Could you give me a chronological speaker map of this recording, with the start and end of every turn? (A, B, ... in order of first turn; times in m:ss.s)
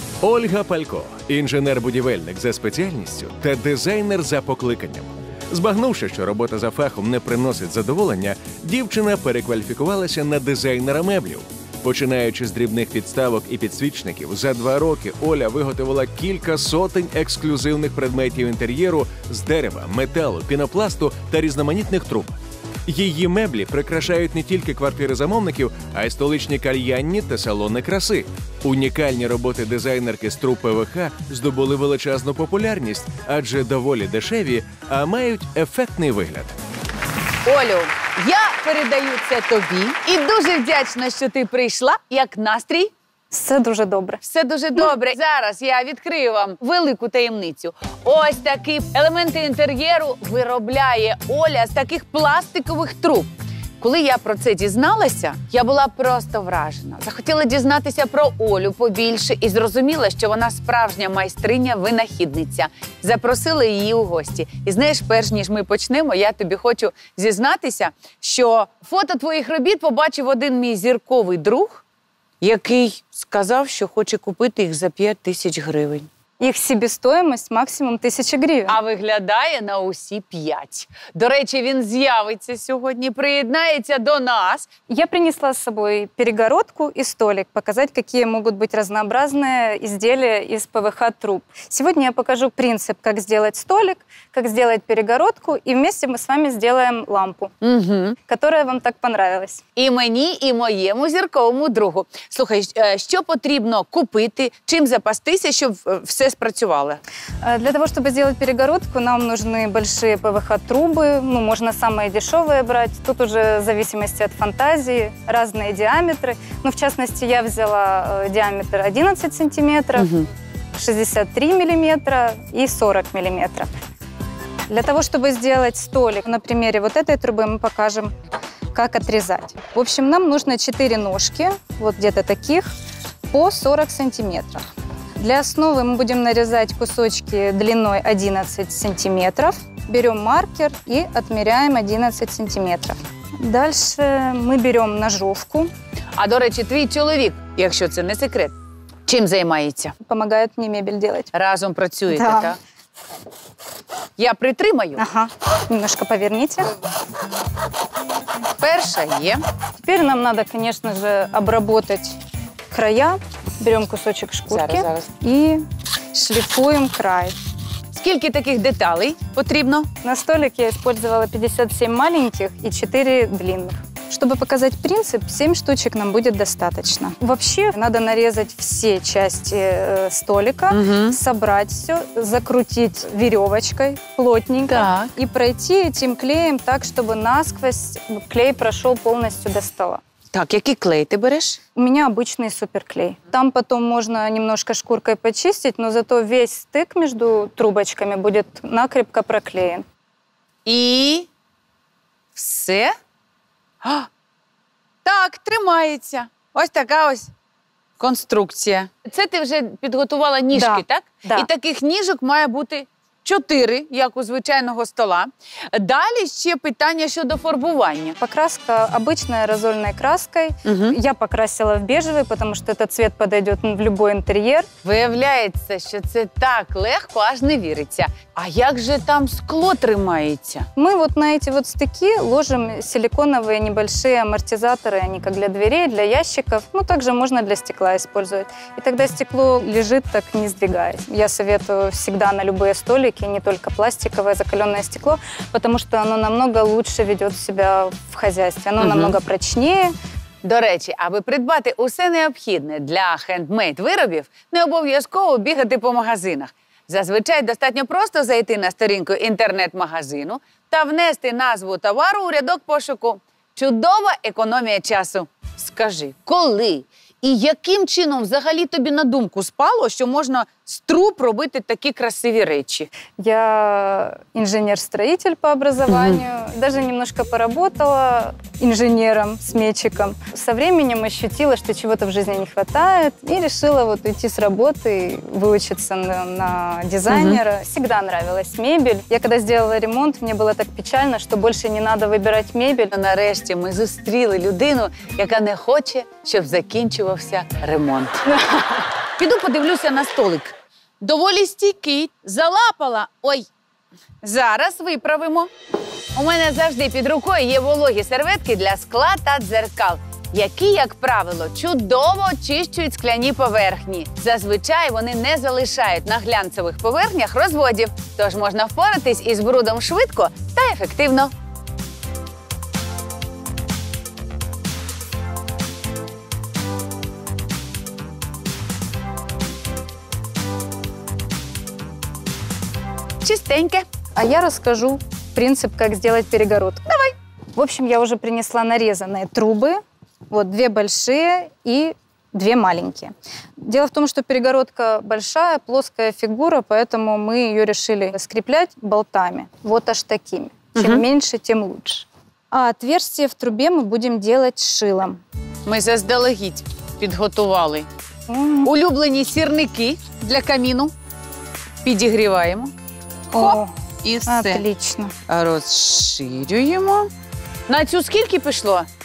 0:00.2-0:36.5 A
0:37.4-0:42.9 B
0:43.3-0:44.2 C
0:44.2-1:11.8 B
1:12.4-1:16.1 B
1:16.4-1:18.8 C
1:18.7-1:24.7 B
1:24.9-1:37.5 C
1:37.6-1:38.2 B
1:38.3-1:39.6 C
1:39.8-1:47.0 B
1:47.4-2:00.1 C
2:00.0-2:00.3 B
2:00.7-2:03.7 C
2:04.7-2:08.1 C
2:08.7-2:12.7 C
2:13.3-2:14.6 C
2:15.2-2:25.7 C
2:26.2-2:28.5 B
2:29.0-2:29.9 B
2:30.0-2:31.3 C
2:31.3-2:32.6 B
2:32.1-2:32.5 C
2:34.2-2:35.0 B
2:35.0-2:36.7 C
2:38.6-2:39.4 B
2:39.8-2:42.1 C
2:42.7-2:45.6 C
2:44.5-2:45.1 B
2:46.1-2:47.3 C
2:47.9-2:49.9 B
2:50.0-3:10.0 C
3:00.7-3:01.2 B
3:04.7-3:05.1 B
3:10.3-3:11.6 B
3:11.8-3:19.8 C
3:20.6-3:21.3 B
3:22.3-3:22.9 B
3:23.8-3:24.1 B
3:25.0-3:27.3 B
3:28.0-3:38.2 B
3:30.5-3:31.5 C
3:38.2-3:44.7 C
3:40.6-3:41.0 B
3:44.8-3:50.7 B
3:50.8-4:09.9 C
4:08.8-4:09.2 B
4:10.4-4:32.9 B
4:33.2-4:52.9 C
4:35.9-4:36.2 B
4:47.1-4:47.4 B
4:52.9-4:58.2 B
4:58.4-4:58.8 C
4:59.2-5:03.5 B
5:04.2-5:05.5 B
5:06.1-5:21.3 B
5:33.2-5:33.8 B
5:34.1-5:55.2 C
5:50.8-5:51.0 B
5:55.6-5:57.9 B
5:58.3-5:58.7 C
5:58.6-6:00.9 B
6:01.8-6:02.7 B
6:03.3-6:03.7 C
6:03.3-6:04.6 B
6:04.2-6:05.1 C
6:05.3-6:07.1 B
6:07.7-6:08.9 B